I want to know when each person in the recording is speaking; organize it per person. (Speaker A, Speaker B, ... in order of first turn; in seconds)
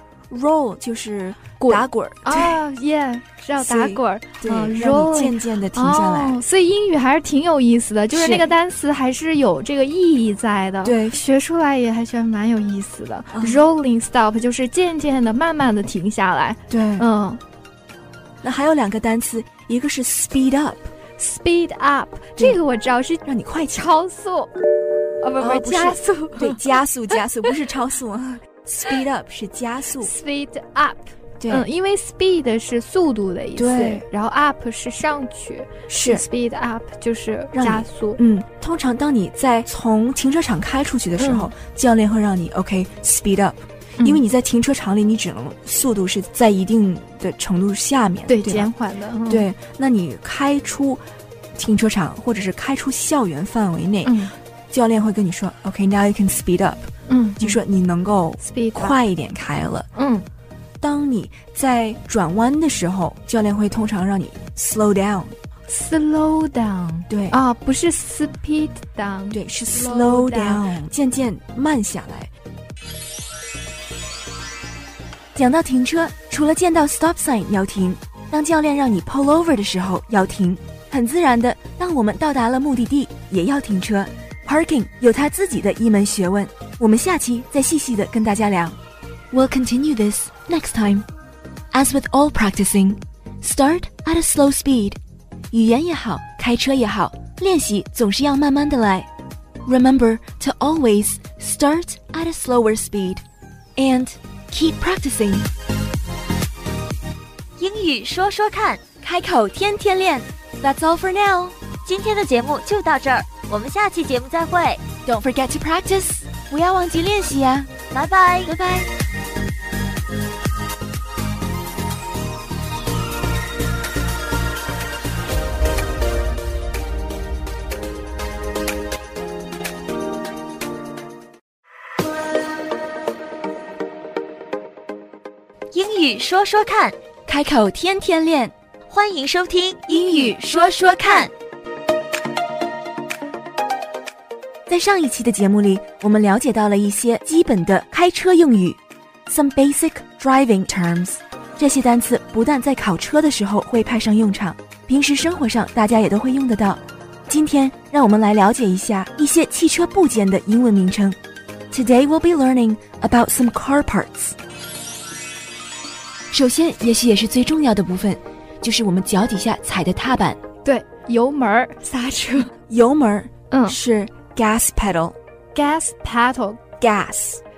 Speaker A: 0.3-2.6, 3.6-6.4, 8.1-8.5, 10.8-11.2, 13.3-13.6, 16.7-17.1, 18.4-20.9, 23.2-23.9, 25.4-30.1, 31.4-31.7, 33.5-34.0, 35.9-36.2, 37.5-48.7, 49.3-51.0, 51.5-59.9, 60.8-65.3, 67.1-67.4, 69.3-72.3, 75.3-88.8, 89.3-91.0, 91.7-95.0, 95.5-99.1, 99.6-103.2, 103.8-105.5, 109.0-111.5, 115.0-117.8, 118.5-118.9, 137.3-138.5, 139.9-140.3, 144.7-161.2, 161.7-164.3, 166.3-170.4, 172.7-175.2, 176.8-177.4
Speaker B: 1.6-17.4, 21.2-23.2, 23.7-24.5, 25.2-26.8, 30.0-38.2, 41.2-41.5, 48.3-49.5, 54.0-54.3, 57.1-57.6, 58.4-59.0, 59.9-60.2, 65.7-70.6, 170.6-172.5, 173.5-173.8, 175.5-176.6
Speaker C: 107.6-108.8, 111.8-114.8, 117.9-118.6, 135.7-136.9, 138.9-141.3